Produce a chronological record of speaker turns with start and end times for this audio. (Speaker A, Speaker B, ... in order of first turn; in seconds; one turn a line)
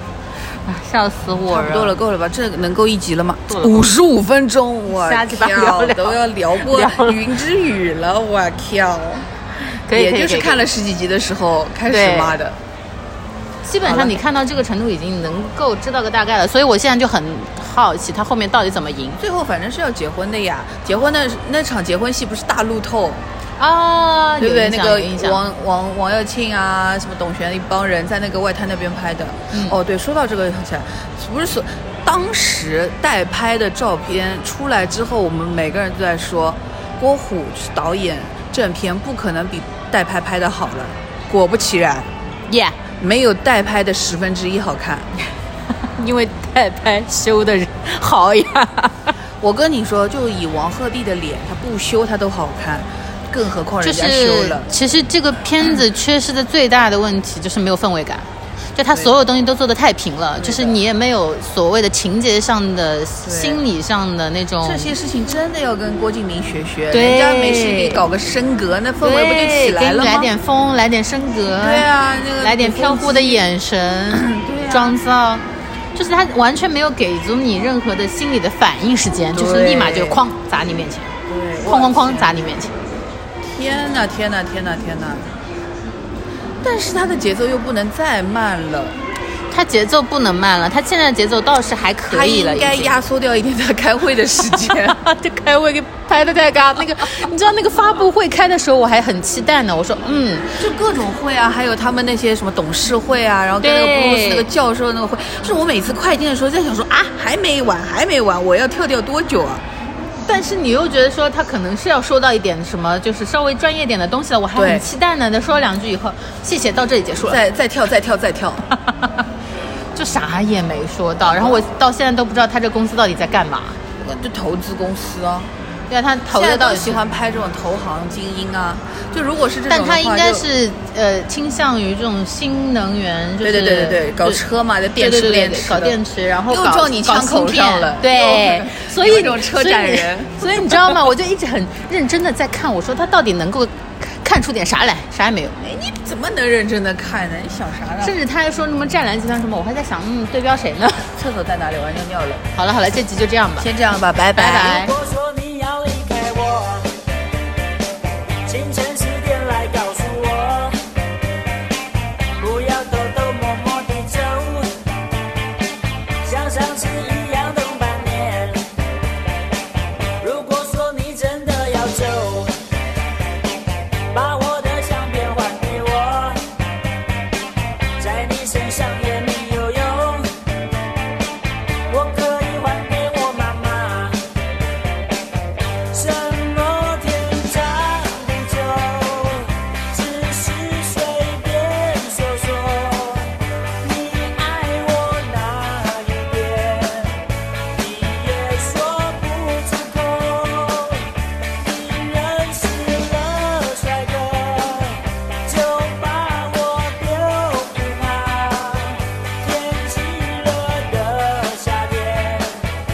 Speaker A: 0.7-2.0
Speaker B: 1.5-9.3
Speaker A: 3.5-3.9
Speaker A: 4.9-7.2
Speaker A: 9.7-10.7
Speaker B: 9.9-12.6
Speaker A: 11.9-12.4
Speaker A: 13.6-19.2
Speaker B: 13.8-14.2
Speaker B: 19.2-23.2
Speaker A: 23.6-25.4
Speaker B: 24.4-42.1
Speaker A: 29.5-29.8
Speaker A: 42.5-42.8
Speaker B: 43.0-45.1
Speaker A: 45.9-49.1
Speaker B: 49.4-54.7
Speaker A: 53.8-64.9
Speaker B: 60.4-60.8
Speaker B: 63.2-63.6
Speaker B: 64.6-70.3
Speaker A: 66.9-68.0
Speaker A: 69.0-71.9
Speaker B: 71.6-73.4
Speaker A: 72.4-75.4
Speaker B: 74.1-75.0
Speaker A: 75.9-82.8
Speaker B: 79.3-80.2
Speaker B: 81.3-82.5
Speaker B: 83.5-85.3
Speaker B: 86.6-89.0
Speaker A: 89.5-92.9
Speaker B: 92.1-95.0
Speaker A: 94.7-100.6
Speaker B: 100.6-109.6
Speaker A: 103.6-104.5
Speaker A: 110.2-117.4
Speaker B: 114.5-114.8
Speaker B: 117.2-118.7
Speaker A: 119.9-123.8
Speaker B: 121.2-121.6
Speaker B: 124.0-125.5
Speaker A: 125.9-127.0
Speaker B: 126.3-130.4
Speaker A: 129.7-134.4
Speaker B: 133.4-141.1
Speaker A: 135.0-145.6
Speaker B: 145.6-148.2
Speaker A: 148.0-151.1
Speaker B: 151.2-152.4
Speaker A: 152.5-153.7
Speaker B: 153.6-154.9
Speaker A: 154.3-154.9
Speaker C: 154.7-157.0
Speaker C: 158.4-160.8
Speaker C: 162.4-164.8
Speaker C: 166.2-168.7
Speaker C: 170.2-172.6
Speaker C: 174.1-176.5
Speaker C: 178.0-180.4
Speaker C: 181.9-184.3
Speaker C: 185.9-212.7